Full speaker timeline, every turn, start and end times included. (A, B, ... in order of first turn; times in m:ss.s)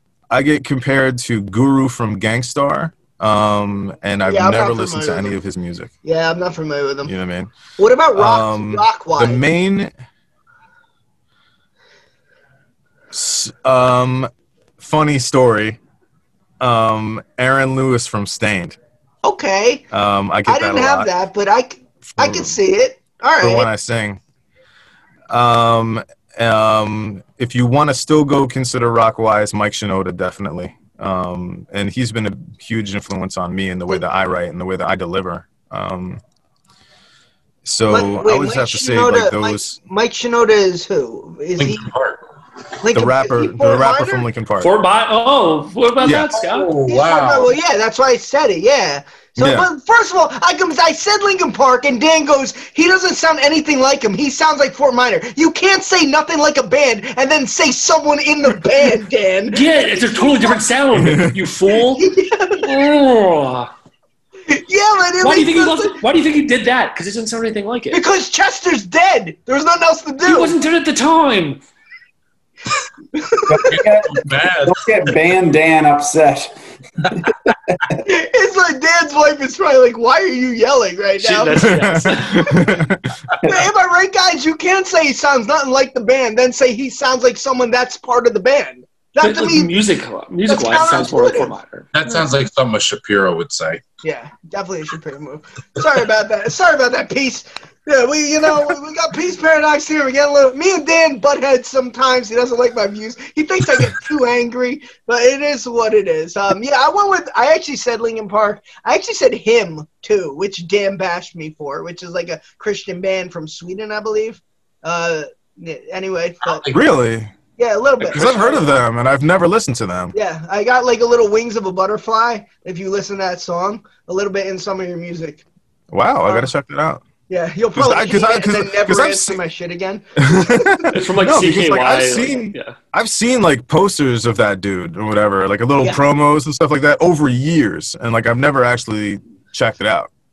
0:00.3-0:05.9 A
0:04.2-0:05.4 B
0:06.0-0:07.1 B
0:07.0-0:07.5 A
0:07.8-0:09.4 B
0:08.2-0:09.9 A
0:13.1-0:15.8 A
0:16.6-0:18.8 A
0:19.2-0:19.8 B
0:19.9-0:21.1 A
0:20.5-0:23.7 B
0:22.1-0:22.5 A
0:23.4-0:24.2 A
0:25.3-0:36.2 A
0:37.6-0:39.8 A
0:37.9-0:41.9 B
0:41.6-0:42.2 C
0:42.8-0:44.3 B
0:42.9-0:44.7 A
0:44.6-0:46.7 D
0:46.0-0:46.4 A
0:46.3-0:47.5 C
0:46.8-1:00.6 B
0:49.4-0:49.7 A
0:59.5-1:02.1 D
1:01.0-1:01.4 A
1:01.9-1:02.8 B
1:02.6-1:03.7 D
1:04.5-1:06.0 B
1:05.2-1:08.0 D
1:07.9-1:10.6 B
1:10.2-1:11.6 D
1:13.2-1:13.7 B
1:13.5-1:17.4 E
1:13.7-1:14.9 C
1:18.0-1:22.8 B
1:21.2-1:22.7 D
1:21.6-1:23.1 A
1:23.4-1:29.8 B
1:29.2-1:31.9 D
1:30.4-1:31.6 B
1:31.9-1:33.8 C
1:34.0-1:56.7 B
1:56.4-1:56.8 C
1:56.7-1:57.3 A
1:57.6-1:58.8 B
1:58.0-2:00.2 A
2:00.1-2:05.4 B
2:05.9-2:07.0 A
2:06.3-2:06.5 B
2:07.3-2:10.9 B
2:07.8-2:09.4 A
2:10.2-2:20.1 A
2:10.9-2:12.8 D